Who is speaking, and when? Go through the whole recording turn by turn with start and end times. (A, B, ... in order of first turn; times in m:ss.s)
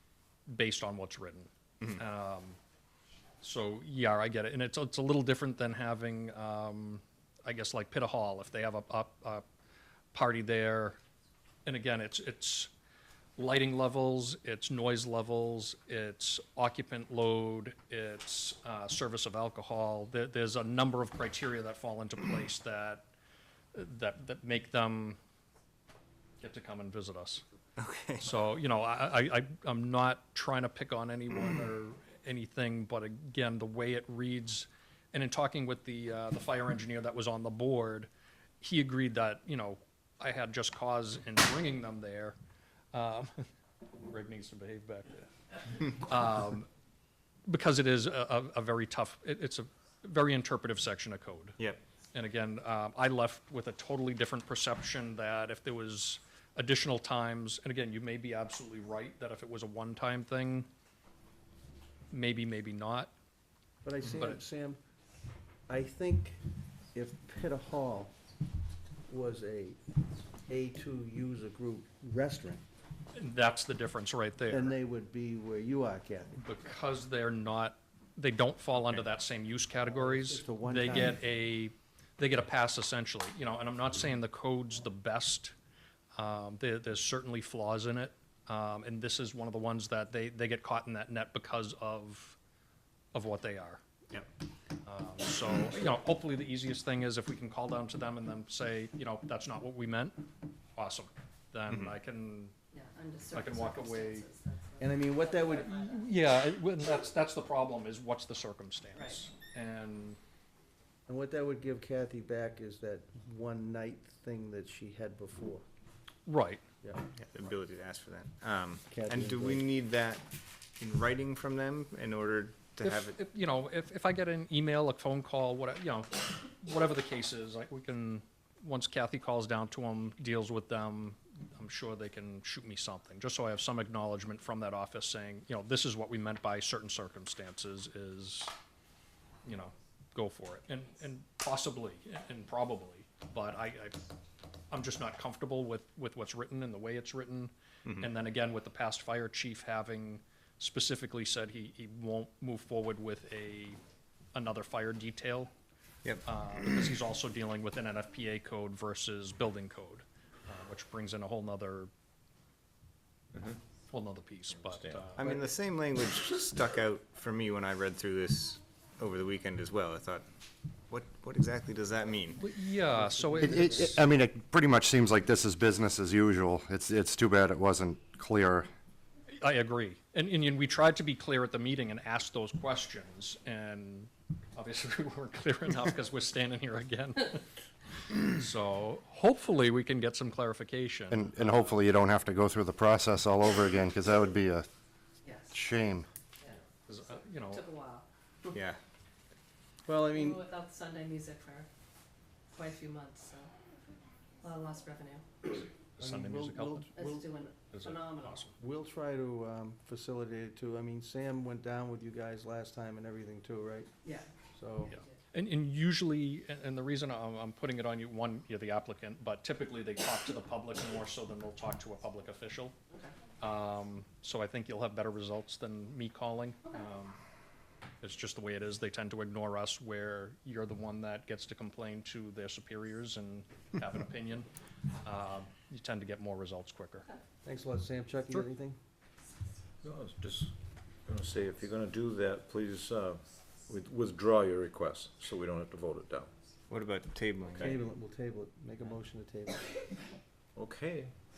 0:00.5-0:02.6 A
0:03.4-0:09.4 A
0:10.1-0:11.0 A
0:11.7-0:12.7 A
0:13.4-0:23.1 A
0:23.7-0:25.2 A
0:26.4-0:27.4 A
0:27.8-0:28.4 B
0:28.2-0:38.1 A
0:38.6-0:42.4 A
0:42.9-0:43.5 A
0:44.0-0:46.7 A
0:47.5-0:51.6 A
0:52.1-1:00.7 A
1:02.1-1:03.1 A
1:03.8-1:04.8 C
1:04.1-1:04.4 A
1:05.7-1:06.4 C
1:06.9-1:08.2 C
1:09.1-1:09.8 C
1:10.5-1:12.6 C
1:13.2-1:14.7 A
1:14.5-1:16.4 C
1:16.4-1:25.5 A
1:19.9-1:21.2 C
1:26.2-1:32.4 A
1:33.1-1:33.8 A
1:34.8-1:42.5 A
1:41.7-1:41.9 B
1:42.7-1:46.1 D
1:43.3-1:44.3 A
1:44.8-1:45.8 C
1:45.6-1:50.2 A
1:51.1-1:55.6 C
1:56.3-1:56.6 A
1:56.8-1:57.1 C
1:57.2-2:00.3 B
1:58.9-1:59.7 C
2:00.8-2:03.2 B
2:02.8-2:18.5 A
2:19.4-2:24.0 A
2:24.7-2:33.8 A
2:27.8-2:28.1 B
2:34.3-2:35.5 A
2:36.2-2:41.9 A
2:43.9-2:45.3 A
2:44.6-2:45.2 E
2:45.1-2:50.3 B
2:50.9-2:52.4 B
2:52.4-2:54.0 A
2:53.0-2:53.8 C
2:53.4-2:58.7 F
2:59.3-3:07.5 A
3:08.1-3:11.6 A
3:11.1-3:14.7 F
3:15.2-3:15.6 D
3:15.5-3:16.1 F
3:16.8-3:17.7 A
3:17.5-3:18.1 D
3:18.5-3:18.8 B
3:19.8-3:20.4 C
3:20.1-3:21.7 D
3:22.5-3:23.5 D
3:24.4-3:25.2 D
3:26.0-3:27.0 A
3:26.0-3:27.3 C
3:27.0-3:28.4 D
3:27.7-3:28.6 A
3:28.6-3:33.9 C
3:34.0-3:34.3 D
3:34.5-3:35.0 C
3:34.9-3:42.8 A
3:42.9-3:43.2 D
3:43.4-3:47.2 A
3:48.0-3:54.5 A
3:55.0-3:57.1 A
3:57.4-3:58.8 C
3:59.8-4:06.3 E
4:06.7-4:07.7 B
4:07.5-4:07.8 E
4:07.6-4:09.7 C
4:10.6-4:11.2 E